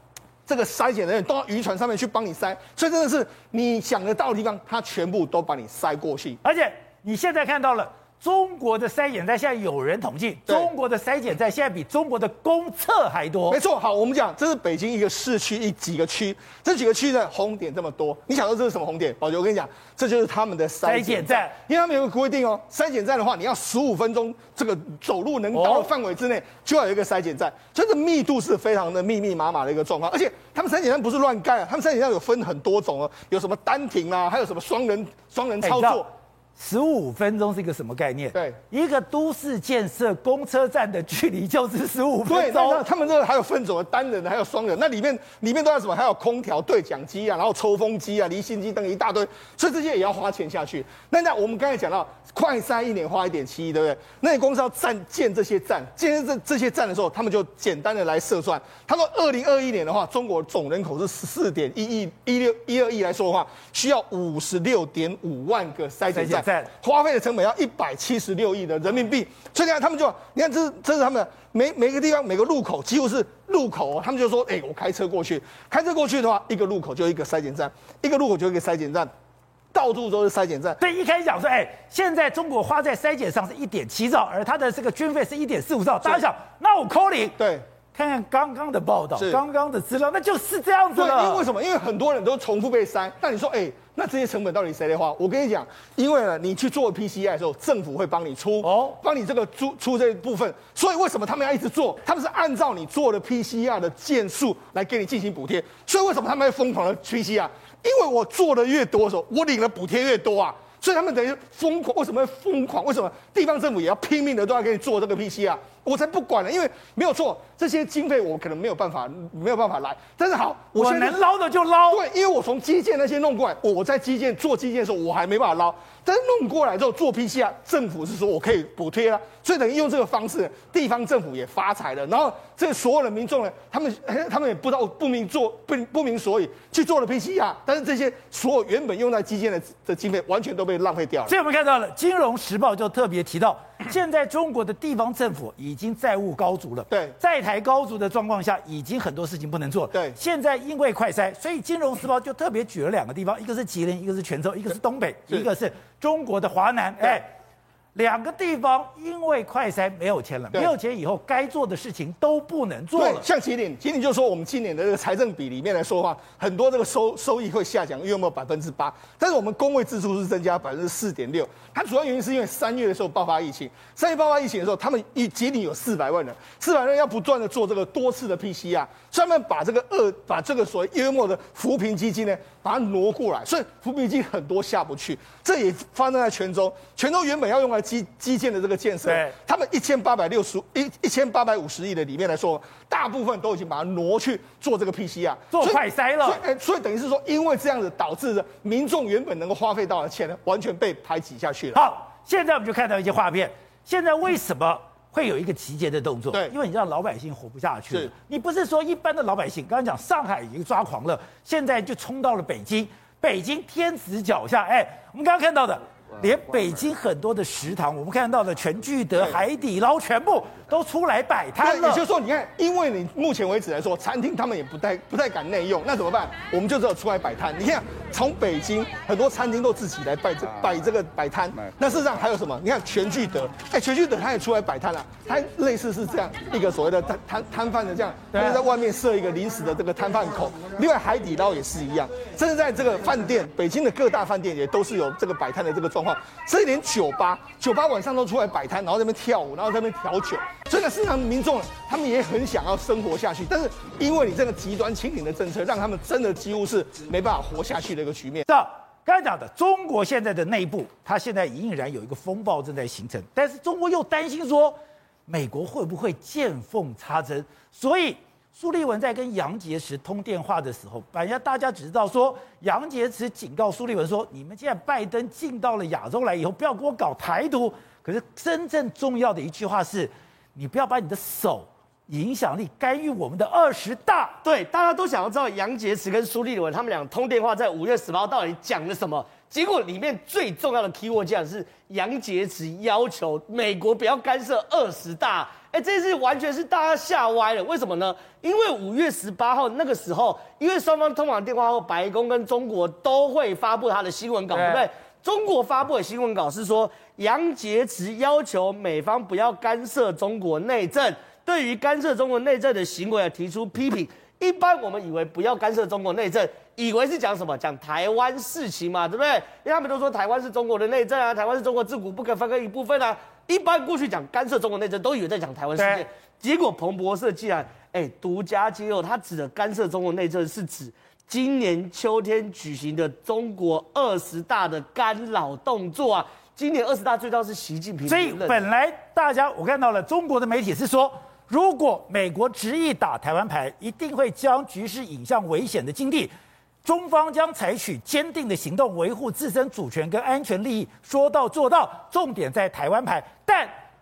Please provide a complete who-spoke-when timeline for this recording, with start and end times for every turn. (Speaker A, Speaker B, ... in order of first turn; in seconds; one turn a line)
Speaker A: 0.5-6.4
Speaker B: 6.4-13.6
Speaker A: 13.5-36.1
Speaker B: 20.9-21.6
Speaker B: 25.5-25.9
Speaker B: 35.6-36.0
Speaker B: 36.6-42.8
Speaker A: 42.2-79.1
Speaker B: 66.1-66.7
Speaker A: 79.7-80.8
Speaker B: 80.8-87.4
Speaker A: 87.4-87.7
Speaker B: 87.9-91.4
Speaker A: 91.0-121.2
Speaker B: 98.6-99.0
Speaker B: 120.8-122.0
Speaker A: 121.9-141.3
Speaker B: 141.3-157.3
Speaker B: 157.9-163.3
Speaker A: 163.0-201.8
Speaker B: 189.1-189.3
Speaker B: 195.5-196.4
Speaker B: 201.7-222.0
Speaker A: 221.6-258.5
Speaker B: 238.3-238.6
Speaker B: 258.5-264.8
Speaker B: 265.3-284.4
Speaker C: 284.4-338.6
Speaker B: 304.5-304.9
Speaker B: 325.8-326.1
Speaker B: 338.1-346.3
Speaker B: 346.8-353.7